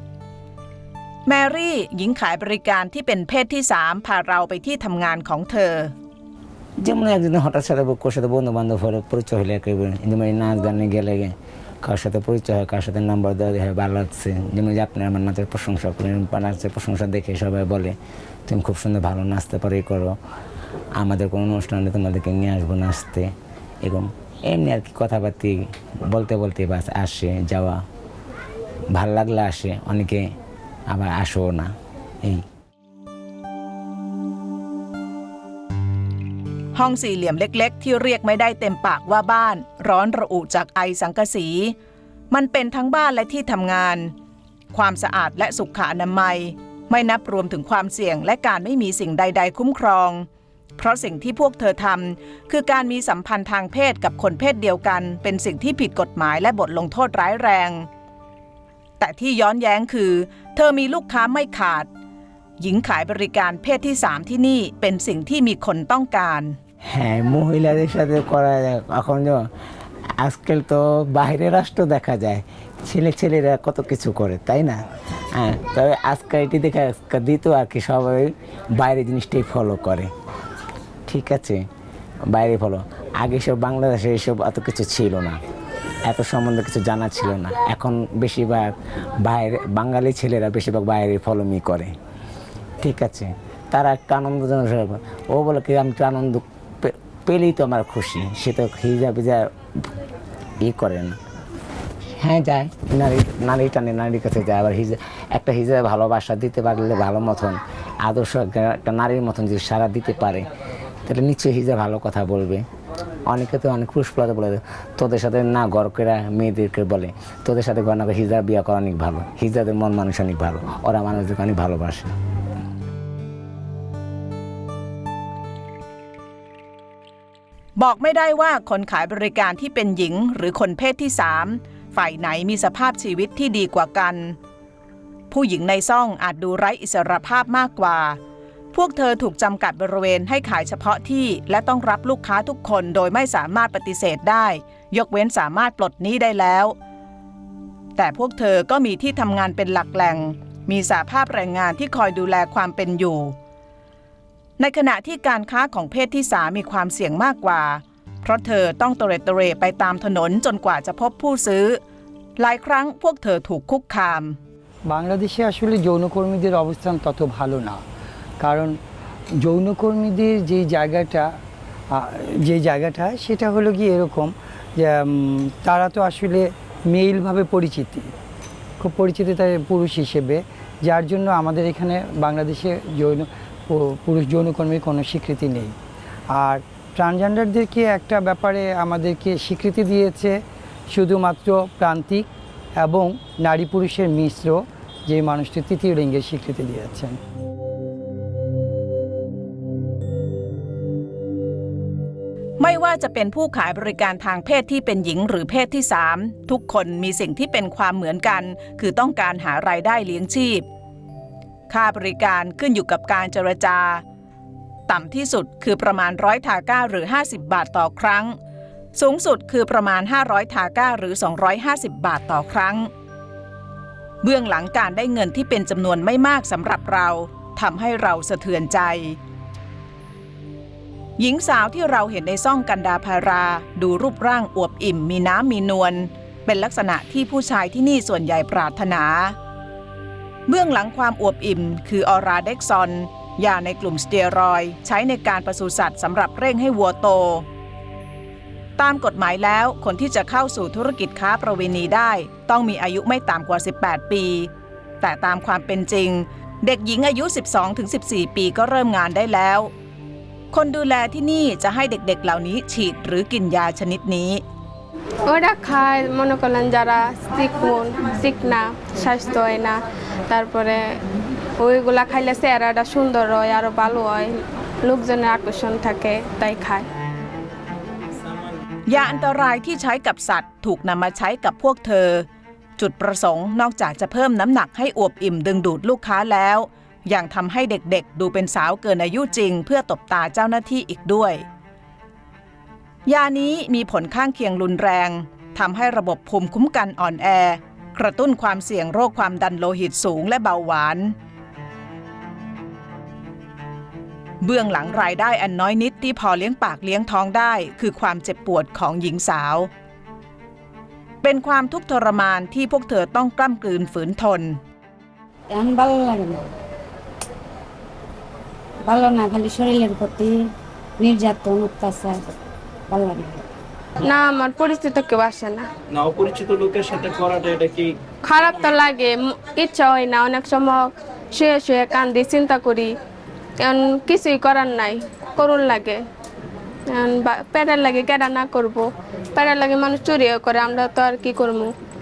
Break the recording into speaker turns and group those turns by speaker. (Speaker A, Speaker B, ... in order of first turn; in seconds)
Speaker A: 1.2-5.9, 36.7-41.7, 42.3-44.1, 44.7-57.9, 59.0-61.9, 62.6-66.6, 127.8-134.4, 135.3-138.2, 138.7-146.7, 147.9-153.3, 154.6-161.8, 162.4-164.4, 202.6-210.6, 211.7-214.0, 214.9-218.3, 218.9-222.9, 224.2-229.2, 231.2-239.3, 240.5-247.4, 248.8-254.5, 255.0-259.7, 260.5-264.4, 278.9-291.4, 293.1-301.1, 304.4-309.7, 311.2-314.6
Speaker B: 6.8-17.9, 18.5-20.1, 20.9-23.3, 23.8-27.8, 28.9-30.3, 30.9-32.4, 66.9-69.5, 70.2-74.8, 75.3-80.1, 81.0-81.7, 82.3-85.4, 86.0-91.9, 92.8-99.5, 100.6-101.2, 102.2-110.5, 111.0-112.6, 113.3-122.1
Speaker C: 164.8-167.8, 168.4-168.8, 169.4-171.4, 171.9-178.1, 178.8-185.7, 186.3-190.4, 190.9-197.2
Speaker D: 265.2-270.9, 271.6-276.9, 324.0-325.6, 328.2-332.9, 333.6-336.0, 336.9-341.7
Speaker E: 315.5-316.5, 318.8-322.3, 322.9-323.4
Speaker F: 325.9-327.9